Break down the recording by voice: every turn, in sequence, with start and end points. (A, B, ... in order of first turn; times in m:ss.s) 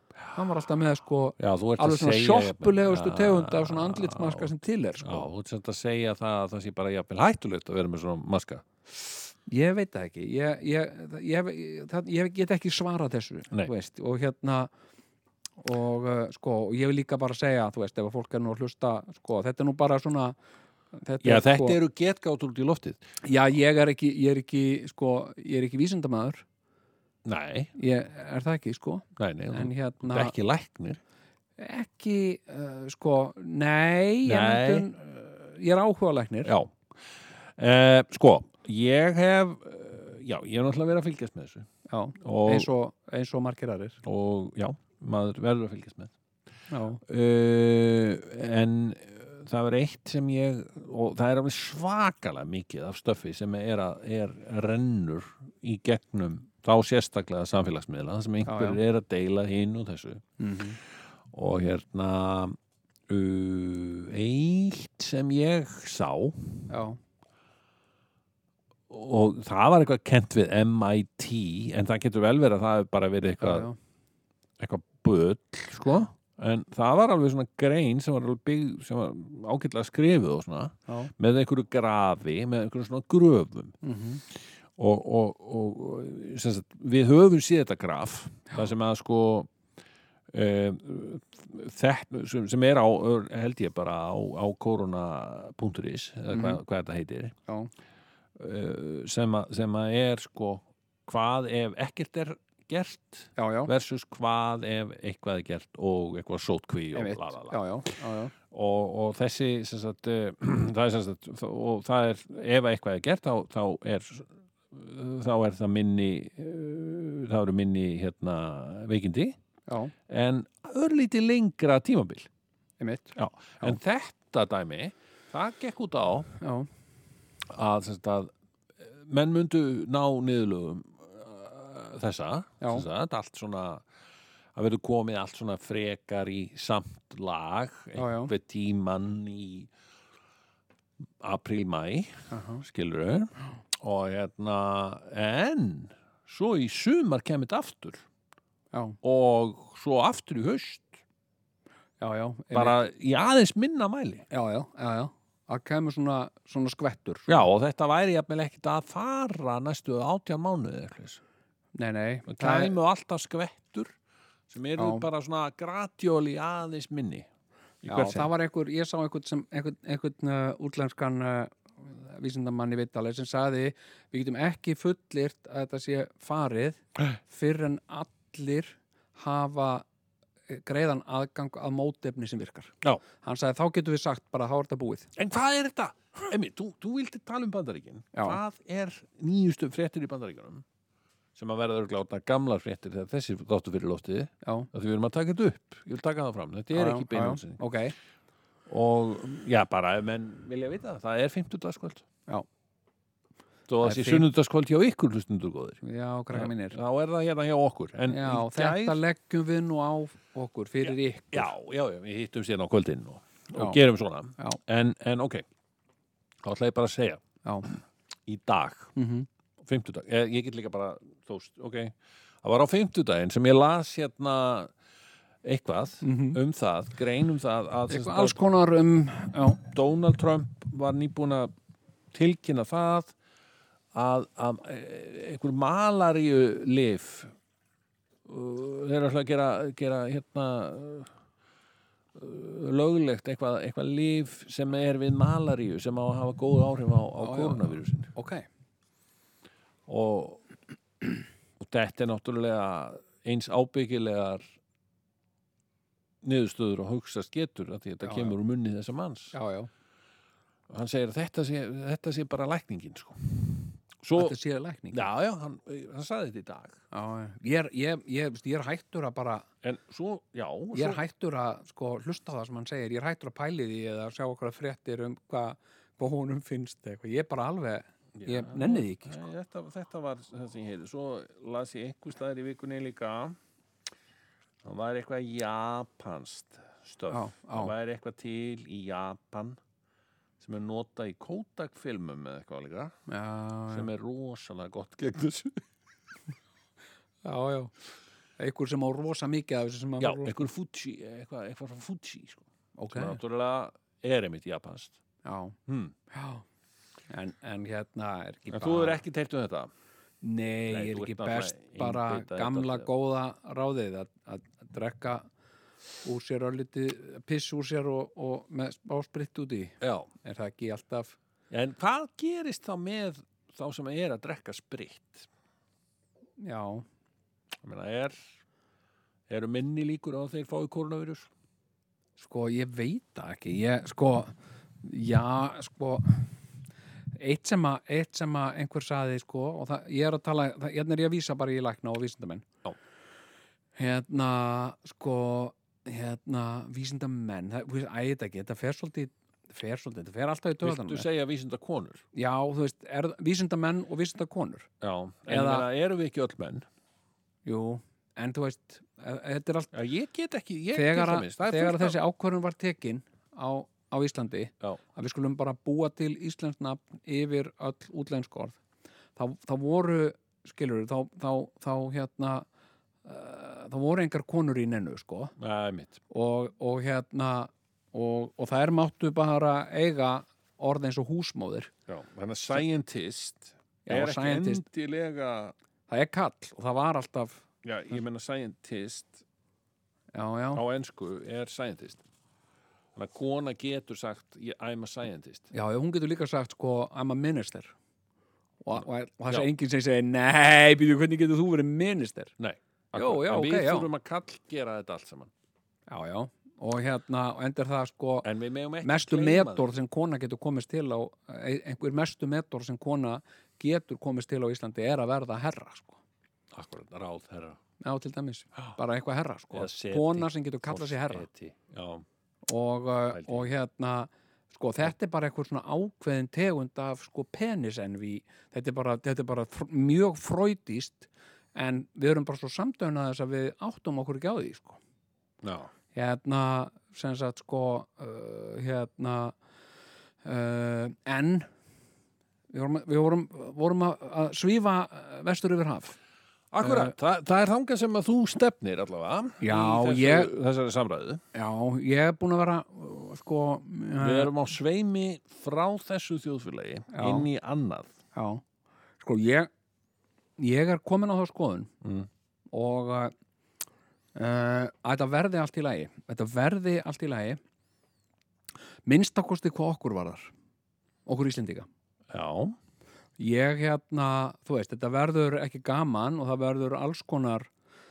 0:00.3-0:05.3 A
0:01.4-0:08.6 B
0:09.5-0:14.7 A
0:15.6-0:20.4 A
0:21.0-0:21.8 A
0:21.2-0:23.0 B
0:23.2-0:26.4 A
0:27.2-0:27.7 B
0:27.8-0:30.3 A
0:29.2-0:31.0 B
0:31.6-0:36.5 A
0:34.2-0:34.9 B
0:36.4-0:36.8 B
0:37.6-0:41.7 B
0:41.9-0:44.0 A
0:42.2-0:42.7 B
0:44.0-0:46.1 B
0:46.7-0:47.0 A
0:47.0-1:00.2 B
0:58.4-0:58.8 A
1:00.4-1:00.8 A
1:01.3-1:02.6 B
1:03.1-1:06.6 B
1:06.7-1:07.0 A
1:08.9-1:13.7 B
1:13.4-1:13.8 A
1:14.6-1:23.8 B
1:23.8-1:24.2 A
1:24.3-1:29.5 B
1:30.3-1:37.3 B
1:36.3-1:36.6 A
1:38.4-1:47.6 B
1:43.4-1:43.7 A
1:46.9-1:48.3 A
1:48.5-1:59.4 B
1:59.7-1:59.9 A
2:00.1-2:02.3 B
2:02.8-2:03.8 A
2:03.2-2:06.3 B
2:06.4-2:06.7 A
2:07.5-2:13.8 B
2:14.5-2:19.7 B
2:18.0-2:18.3 A
2:21.2-2:28.0 B
2:22.3-2:22.6 A
2:28.7-2:29.0 A
2:29.0-2:31.0 B
2:32.0-2:32.8 A
2:32.5-2:34.3 B
2:34.3-2:37.4 A
2:37.3-2:41.2 B
2:41.7-2:42.7 A
2:42.3-2:43.9 B
2:44.5-2:47.3 B
2:44.8-2:45.0 A
2:47.8-2:48.3 B
2:47.9-2:59.8 A
3:00.5-3:05.1 A
3:05.2-3:10.6 B
3:08.1-3:08.4 A
3:11.4-3:17.6 B
3:14.4-3:14.7 A
3:16.7-3:17.9 A
3:18.7-3:22.0 B
3:23.7-3:25.8 B
3:23.8-3:24.3 A
3:25.8-3:26.8 A
3:26.3-3:29.0 B
3:28.1-3:31.5 A
3:30.8-3:35.4 B
3:33.5-3:33.8 A
3:36.4-3:38.9 B
3:37.4-3:37.7 A
3:38.9-3:39.3 A
3:39.6-3:44.7 B
3:45.4-3:48.4 B
3:46.0-3:46.4 A
3:47.9-3:49.6 A
3:49.6-3:51.5 B
3:52.1-3:53.1 B
3:53.9-3:57.3 B
3:58.2-4:01.1 B
4:02.1-4:08.1 B
4:07.2-4:08.4 A
4:09.9-4:10.4 B
4:11.6-4:14.5 B
4:16.2-4:19.3 B
4:18.0-4:18.3 A
4:19.3-4:19.7 A
4:20.7-4:24.4 B
4:24.1-4:25.0 A
4:24.9-4:26.8 B
4:26.9-4:29.4 A
4:29.6-4:31.0 B
4:30.7-4:39.2 A
4:38.2-4:43.4 B
4:44.6-4:49.6 B
4:47.1-4:47.7 A
4:50.4-4:52.9 B
4:53.1-4:53.9 A
4:53.7-4:55.6 B
4:57.2-4:57.7 A
4:58.4-5:00.4 A
5:00.0-5:05.0 B
5:02.8-5:03.2 A
5:05.2-5:05.6 A
5:05.7-5:05.9 B
5:06.1-5:06.4 A
5:07.1-5:09.0 A
5:08.5-5:09.7 B
5:10.2-5:15.2 A
5:10.7-5:12.9 B
5:16.0-5:21.2 A
5:19.8-5:20.1 B
5:21.5-5:25.3 B
5:26.4-5:26.8 A
5:27.6-5:28.2 B
5:29.3-5:31.3 B
5:32.2-5:36.3 A
5:37.2-5:42.4 A
5:43.8-5:51.1 A
5:50.6-5:52.0 B
5:52.1-5:54.7 A
5:54.8-5:56.6 B
5:55.3-5:55.7 A
5:57.4-5:59.7 A
5:59.7-6:02.0 B
6:00.7-6:08.6 A
6:09.2-6:12.4 A
6:13.0-6:15.3 A
6:15.4-6:16.0 B
6:16.1-6:21.7 A
6:21.9-6:25.5 B
6:23.8-6:24.6 A
6:25.9-6:27.4 A
6:27.6-6:29.2 B
6:30.1-6:30.6 A
6:30.5-6:32.0 B
6:32.9-6:35.5 B
6:35.5-6:37.7 A
6:38.6-6:42.3 A
6:38.7-6:39.5 B
6:42.4-6:45.3 B
6:42.9-6:43.9 A
6:45.9-6:48.3 A
6:48.2-6:49.7 B
6:48.8-6:56.0 A
6:56.5-6:57.6 B
6:57.8-7:01.2 A
6:59.5-7:02.0 B
7:02.5-7:14.8 A
7:03.1-7:03.5 B
7:15.4-7:15.7 B
7:15.9-7:19.4 A
7:20.2-7:21.5 A
7:22.5-7:26.0 A
7:26.5-7:31.2 B
7:26.6-7:26.9 A
7:29.4-7:30.3 A
7:31.3-7:34.3 A
7:34.0-7:37.9 B
7:36.9-7:37.3 A
7:38.1-7:38.4 A
7:39.0-7:39.5 A
7:40.4-7:41.7 A
7:41.8-7:42.1 B
7:42.5-7:43.1 A
7:44.1-7:47.4 A
7:48.8-7:50.3 A
7:51.0-7:51.7 A
7:52.1-7:52.6 B
7:53.2-7:57.5 A